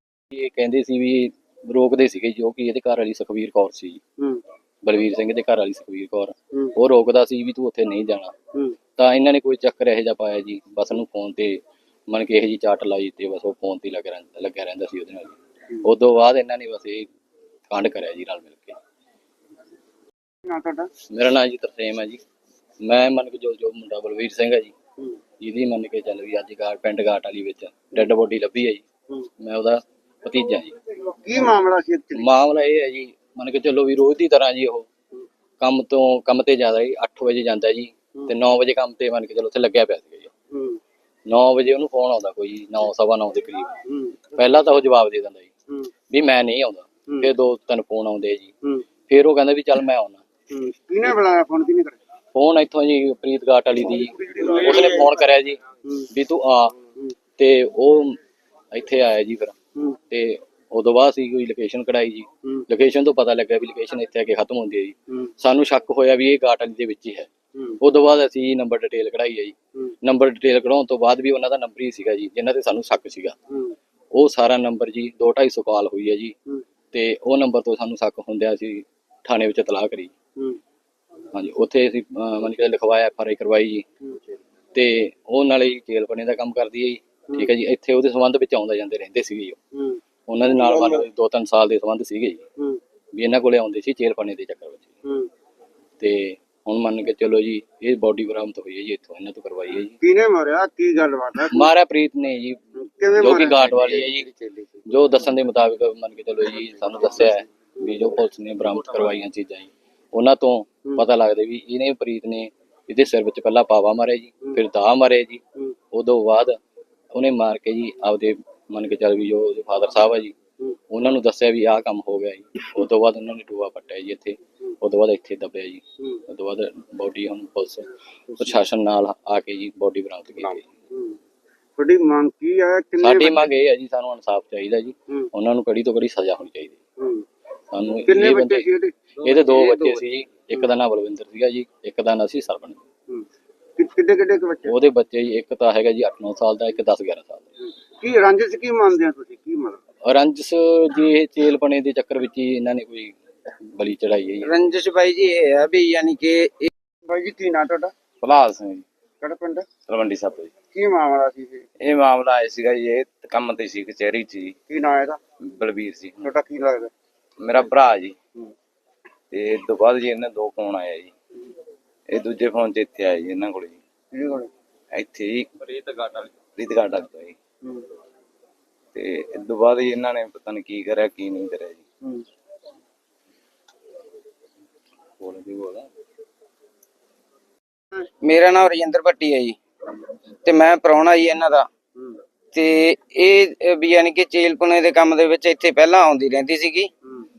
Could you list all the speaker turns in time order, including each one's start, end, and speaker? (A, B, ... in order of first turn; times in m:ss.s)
0:00.3-0:04.0 A
0:04.8-0:08.3 A
0:09.0-0:17.1 A
0:17.7-0:18.8 A
0:20.4-0:20.9 B
0:21.1-0:22.2 A
0:22.8-0:24.8 A
0:25.4-0:28.8 A
0:29.4-0:30.8 A
0:31.0-0:32.3 B
0:32.2-0:34.9 A
0:35.6-0:40.3 A
0:40.5-0:40.8 B
0:41.3-0:43.7 A
0:43.9-0:44.4 B
0:44.4-0:45.5 A
0:46.1-0:48.5 A
0:49.1-0:50.2 A
0:50.5-0:52.0 B
0:52.3-0:55.6 A
0:54.2-0:55.1 B
0:56.1-0:56.8 A
0:57.4-0:58.2 A
0:58.7-0:59.6 A
1:00.1-1:07.3 A
1:07.8-1:13.4 A
1:14.1-1:16.4 A
1:16.9-1:20.1 A
1:21.3-1:23.8 A
1:24.7-1:29.6 A
1:29.8-1:31.1 B
1:30.3-1:32.4 A
1:33.1-1:34.9 A
1:35.0-1:35.3 B
1:36.0-1:40.0 A
1:40.0-1:41.7 B
1:41.4-1:42.6 A
1:42.8-1:44.8 B
1:43.1-1:44.3 A
1:44.9-1:55.4 A
1:55.9-1:56.6 A
1:57.1-2:00.4 A
2:00.9-2:10.6 A
2:10.9-2:11.2 B
2:11.8-2:13.5 B
2:13.0-2:16.8 A
2:17.0-2:17.2 B
2:17.7-2:18.7 A
2:18.1-2:20.7 B
2:19.2-2:22.8 A
2:23.8-2:24.8 B
2:24.7-2:27.4 A
2:28.0-2:29.8 B
2:30.0-2:33.1 A
2:33.7-2:34.5 A
2:34.4-2:36.7 C
2:37.1-2:37.9 B
2:38.2-2:38.9 D
2:39.2-2:39.7 B
2:39.9-2:40.5 D
2:40.7-2:41.6 B
2:41.9-2:44.5 D
2:44.7-2:45.2 B
2:45.5-2:46.3 D
2:46.2-2:46.9 B
2:47.5-2:48.1 D
2:49.3-2:51.1 D
2:52.1-2:53.8 D
2:54.1-2:54.5 B
2:55.0-2:57.4 D
2:59.0-3:01.8 D
3:05.2-3:05.9 D
3:08.2-3:09.6 C
3:10.4-3:11.7 C
3:12.5-3:16.9 C